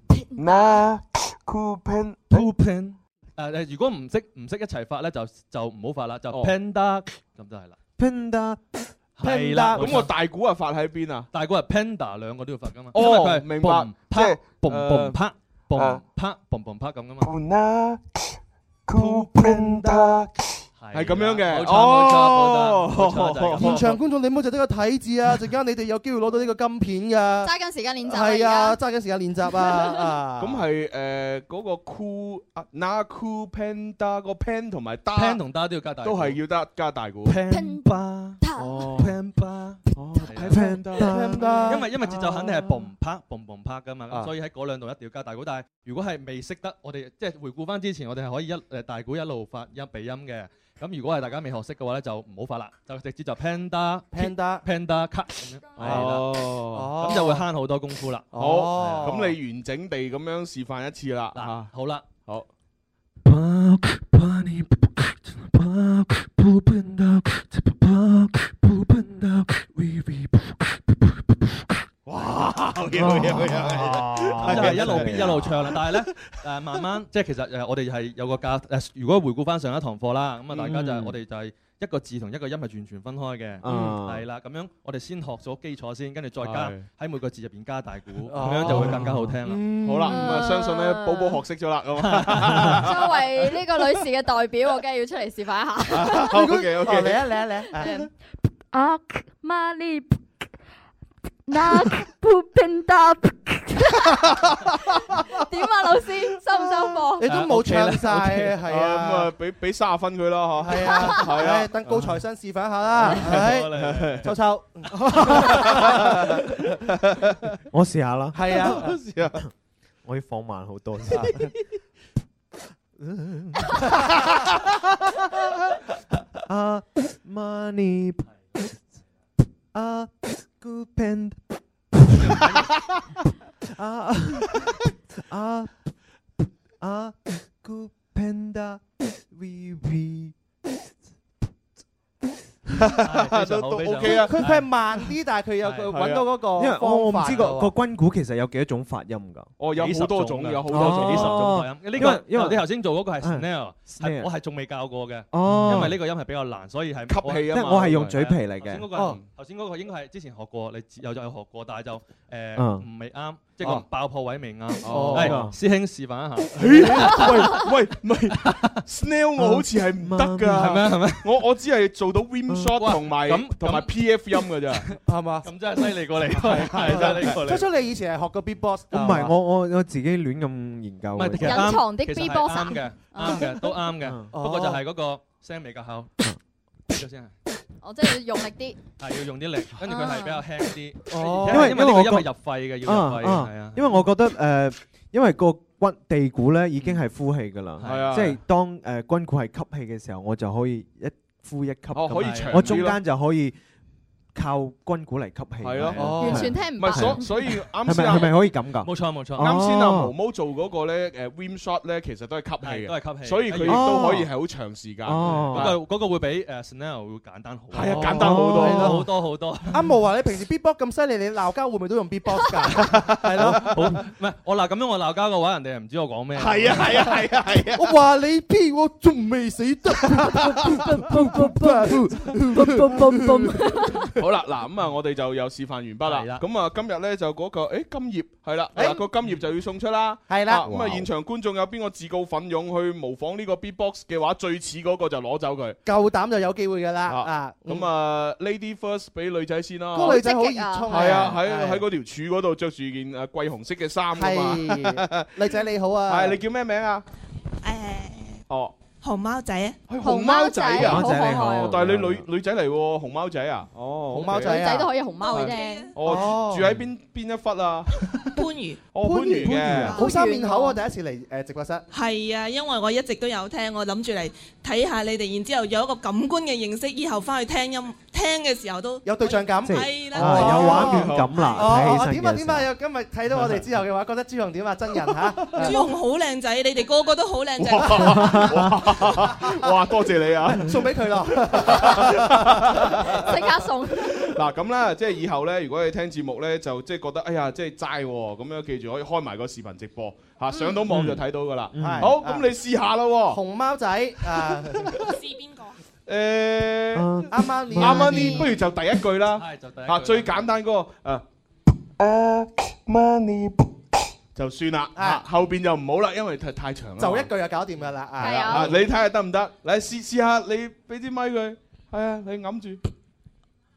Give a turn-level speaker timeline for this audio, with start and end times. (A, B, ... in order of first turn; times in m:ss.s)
0:00.3-0:00.7 A
0:00.4-0:02.5 B
0:02.3-0:07.8 C
0:06.3-0:06.5 B
0:08.0-0:08.6 D
0:09.2-0:10.1 C
0:09.2-0:09.8 E
0:09.7-0:11.3 B
0:11.3-0:17.3 C
0:12.9-0:15.2 B
0:15.7-0:16.0 B
0:17.2-0:18.0 B
0:18.9-0:20.2 B
0:18.9-0:20.1 C
0:20.8-0:24.0 C
0:20.9-0:23.9 B
0:23.6-0:27.5 E
0:27.4-0:28.8 A
0:28.1-0:30.6 E
0:30.4-0:35.4 B
0:35.1-0:36.4 C
0:36.0-0:37.4 B
0:37.2-0:41.0 C
0:37.5-0:38.9 A
0:38.6-0:39.2 B
0:39.9-0:41.8 B
0:40.5-0:41.8 D
0:41.0-0:41.9 E
0:41.7-0:59.2 C
0:54.1-0:54.7 E
0:55.8-0:56.9 B
0:56.7-0:57.5 E
0:58.3-0:59.3 E
0:58.4-1:01.7 B
1:01.3-1:02.1 C
1:03.3-1:11.2 D
1:12.0-1:16.4 B
1:12.9-1:15.5 D
1:14.4-1:29.8 C
1:20.5-1:21.2 D
1:23.6-1:24.2 D
1:26.4-1:26.9 B
1:28.3-1:29.1 E
1:28.4-1:33.2 B
1:28.7-1:29.3 D
1:29.7-1:30.2 E
1:30.0-1:31.4 A
1:32.0-1:32.8 C
1:32.8-1:36.5 A
1:35.9-1:37.2 B
1:36.3-1:38.1 E
1:37.8-1:38.1 A
1:38.7-1:40.0 A
1:41.5-1:47.3 A
1:47.2-1:49.3 E
1:47.2-1:48.6 C
1:48.6-1:51.7 B
1:50.6-1:56.4 E
1:50.8-1:51.2 A
1:53.1-1:54.3 B
1:53.1-1:54.3 C
1:55.1-1:56.1 B
1:57.7-1:58.9 D
1:58.3-1:59.3 E
1:58.7-1:59.4 B
2:00.0-2:01.5 D
2:01.1-2:01.5 E
2:03.0-2:03.9 D
2:06.5-2:08.2 D
2:09.7-2:12.4 D
2:12.2-2:12.6 C
2:13.8-2:14.5 D
2:15.3-2:15.9 D
2:16.8-2:20.7 D
2:23.0-2:24.8 C
2:23.0-2:24.4 B
2:24.0-2:27.8 E
2:25.6-2:26.0 C
2:25.9-2:26.3 B
2:26.5-2:29.5 D
2:29.6-2:31.5 B
2:29.7-2:47.7 C
2:30.6-2:34.3 D
2:35.3-2:36.0 D
2:35.4-2:35.8 B
2:37.1-2:38.4 B
2:37.5-2:38.9 D
2:38.9-2:39.2 E
2:38.9-2:39.2 B
2:42.5-2:42.9 D
2:44.8-2:45.5 B
2:44.9-2:45.3 E
2:45.1-2:45.6 D
2:46.5-2:54.8 B
2:48.3-2:48.8 C
2:49.4-2:50.8 D
2:50.5-2:51.4 C
2:52.5-2:52.8 D
2:52.7-2:57.7 C
2:55.0-2:55.9 E
2:56.4-2:57.4 B
2:56.4-2:59.3 E
2:58.9-3:01.8 D
2:59.0-2:59.3 C
3:01.2-3:06.1 C
3:01.4-3:03.6 A
3:04.0-3:04.3 D
3:04.3-3:04.8 E
3:06.9-3:07.4 C
3:07.8-3:08.8 A
3:09.0-3:14.0 C
3:09.9-3:10.4 A
3:11.1-3:11.8 E
3:11.4-3:23.5 D
3:16.8-3:17.0 C
3:17.8-3:18.3 C
3:17.8-3:18.4 B
3:21.9-3:23.0 B
3:22.1-3:22.9 C
3:24.3-3:27.2 D
3:25.6-3:28.3 B
3:25.6-3:26.4 C
3:26.0-3:26.5 E
3:26.2-3:27.3 A
3:27.8-3:30.1 D
3:27.9-3:28.2 C
3:28.8-3:29.6 C
3:29.4-3:35.8 B
3:32.6-3:34.0 C
3:33.6-3:34.3 D
3:35.0-3:35.7 D
3:35.2-3:39.8 C
3:37.7-3:38.9 B
3:38.0-3:39.1 E
3:38.0-3:39.0 D
3:39.7-3:43.8 E
3:43.4-3:47.0 C
3:46.4-3:47.9 B
3:46.5-3:47.2 E
3:47.8-3:54.1 E
3:54.2-4:05.8 B
3:56.0-3:56.4 C
3:58.7-3:59.0 E
4:00.3-4:00.7 E
4:00.6-4:01.1 D
4:05.8-4:07.9 E
4:07.1-4:10.2 B
4:09.9-4:11.8 E
4:09.9-4:11.2 A
4:10.9-4:15.3 B
4:14.2-4:16.4 E
4:16.1-4:17.0 B
4:17.6-4:18.4 F
4:18.5-4:18.8 B
4:19.0-4:19.8 F
4:19.9-4:24.6 B
4:20.0-4:21.8 A
4:20.7-4:22.2 D
4:24.1-4:24.9 E
4:24.3-4:25.9 A
4:25.2-4:26.0 F
4:25.3-4:27.9 B
4:26.0-4:26.7 E
4:28.4-4:28.8 F
4:28.9-4:30.0 B
4:29.0-4:31.8 E
4:29.4-4:29.9 F
4:29.9-4:30.8 A
4:31.9-4:41.6 F
4:39.0-4:45.9 E
4:39.6-4:42.7 D
4:40.1-4:41.6 B
4:45.3-4:45.7 B
4:45.6-4:48.4 F
4:47.6-5:03.4 B
4:48.3-4:48.7 D
4:50.5-4:53.1 E
4:53.1-4:54.2 A
5:00.5-5:00.9 A
5:00.9-5:02.1 D
5:01.8-5:02.4 E
5:03.3-5:05.1 E
5:05.0-5:05.8 F
5:06.1-5:11.2 B
5:06.9-5:08.4 D
5:07.3-5:08.5 E
5:08.1-5:08.5 A
5:09.3-5:10.5 C
5:12.0-5:13.6 B
5:14.3-5:17.3 B
5:15.0-5:15.2 E
5:17.0-5:18.8 E
5:18.2-5:18.7 A
5:18.4-5:22.8 B